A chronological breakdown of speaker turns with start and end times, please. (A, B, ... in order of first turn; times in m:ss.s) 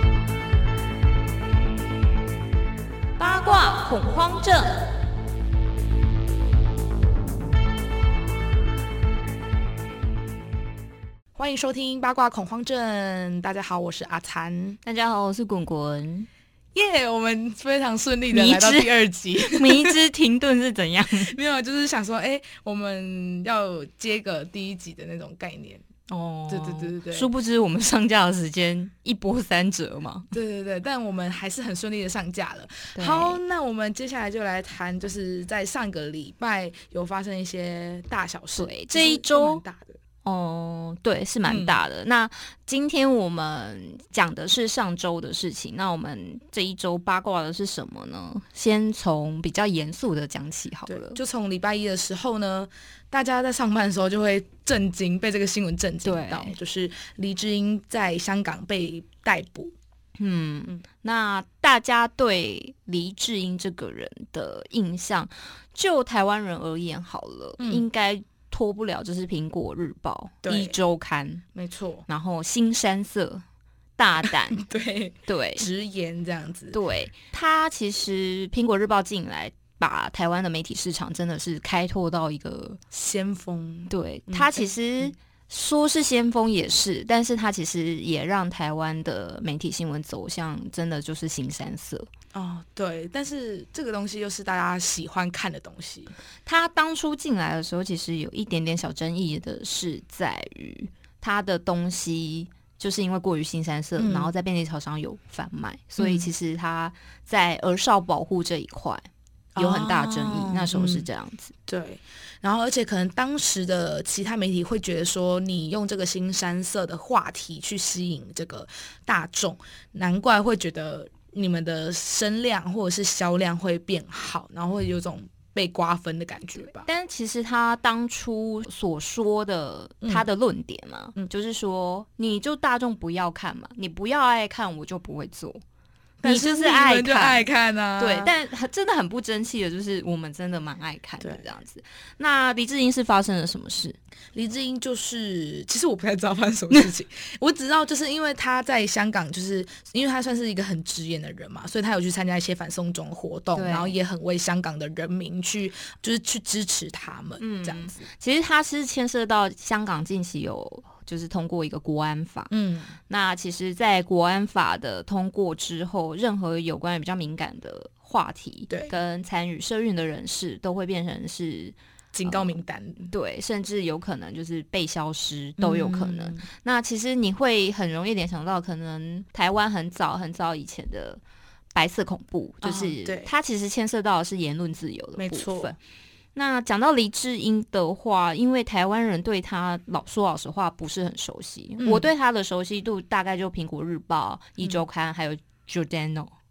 0:03.2-0:04.9 A
0:11.3-0:14.8 B
0:14.8-0:16.3 A
0:16.7-0:20.0 B
0:18.3-0:19.0 A
0:19.5-0:21.3 A
0:21.3-0:25.8 B
0:26.1-0:30.3 A
0:26.5-0:27.3 B
0:30.3-0:40.0 B
0:32.9-0:33.4 A
0:38.6-0:39.6 A
0:40.2-0:51.2 A
0:41.4-0:41.8 B
0:50.9-0:59.7 B
0:56.0-0:56.5 A
1:00.2-1:11.4 A
1:07.6-1:07.8 B
1:10.4-1:10.8 B
1:11.5-1:12.0 B
1:12.1-1:13.4 A
1:14.0-1:14.6 A
1:14.2-1:16.8 B
1:15.3-1:15.7 A
1:16.7-1:22.8 A
1:22.9-1:25.0 B
1:23.9-1:32.1 A
1:32.3-1:36.1 B
1:36.4-1:51.5 A
1:44.0-1:44.3 B
1:46.0-1:46.3 B
1:49.5-1:51.1 B
1:51.7-2:06.9 B
2:06.7-2:15.6 A
2:10.0-2:10.3 B
2:16.2-2:18.3 B
2:16.2-2:17.5 A
2:18.0-2:24.0 A
2:24.3-2:38.0 B
2:33.5-2:33.9 A
2:37.4-2:42.5 A
2:42.5-2:42.9 B
2:43.1-2:51.8 A
2:52.1-2:53.1 B
2:52.3-2:52.5 A
2:53.1-3:01.2 A
2:55.6-2:56.4 B
3:01.7-3:05.8 A
3:02.6-3:03.3 B
3:05.2-3:05.7 B
3:06.3-3:16.3 A
3:11.8-3:12.1 B